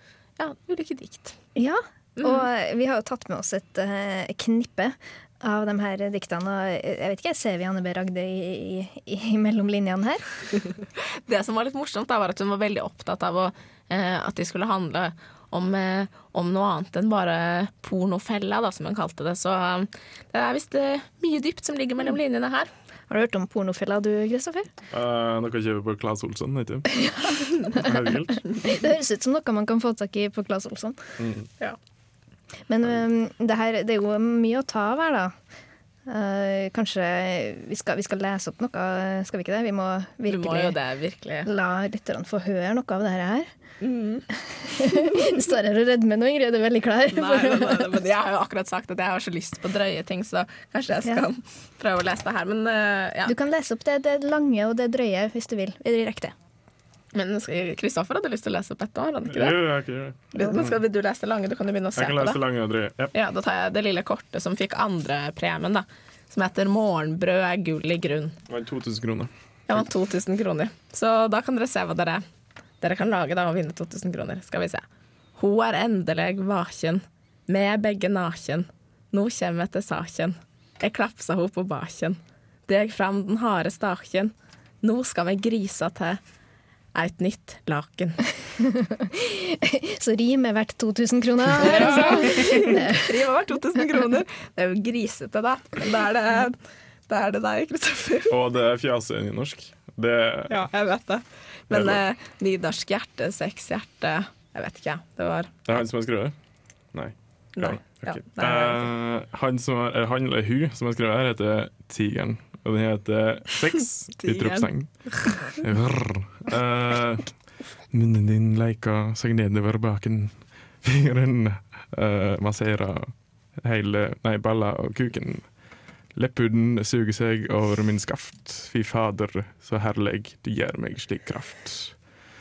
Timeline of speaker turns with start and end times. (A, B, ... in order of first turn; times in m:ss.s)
0:00.4-0:01.4 A
0:01.6-0:10.3 B
0:11.2-0:22.7 A
0:23.1-0:24.7 B
0:24.9-0:26.9 C
0:27.7-0:28.4 C
0:28.6-0:31.0 B
0:31.2-0:31.5 C
0:32.7-0:35.3 B
0:36.1-0:40.8 B
0:40.3-0:41.5 A
0:41.4-0:43.5 B
0:43.8-0:44.3 A
0:44.7-0:48.0 B
0:47.1-0:53.3 A
0:53.2-0:56.3 B
0:57.1-0:59.6 A
0:59.2-1:00.8 C
1:00.3-1:02.4 A
1:02.0-1:03.1 C
1:03.1-1:08.4 A
1:08.5-1:09.8 C
1:09.7-1:12.2 A
1:12.8-1:14.8 A
1:15.4-1:26.2 A
1:26.9-1:28.2 A
1:28.8-1:33.1 B
1:31.6-1:36.6 A
1:37.1-1:38.3 A
1:38.3-1:40.6 C
1:40.5-1:45.5 A
1:41.7-1:42.0 C
1:45.7-1:46.3 C
1:46.9-2:05.6 C
1:47.6-1:48.9 A
1:54.2-1:55.5 A
2:06.1-2:12.0 C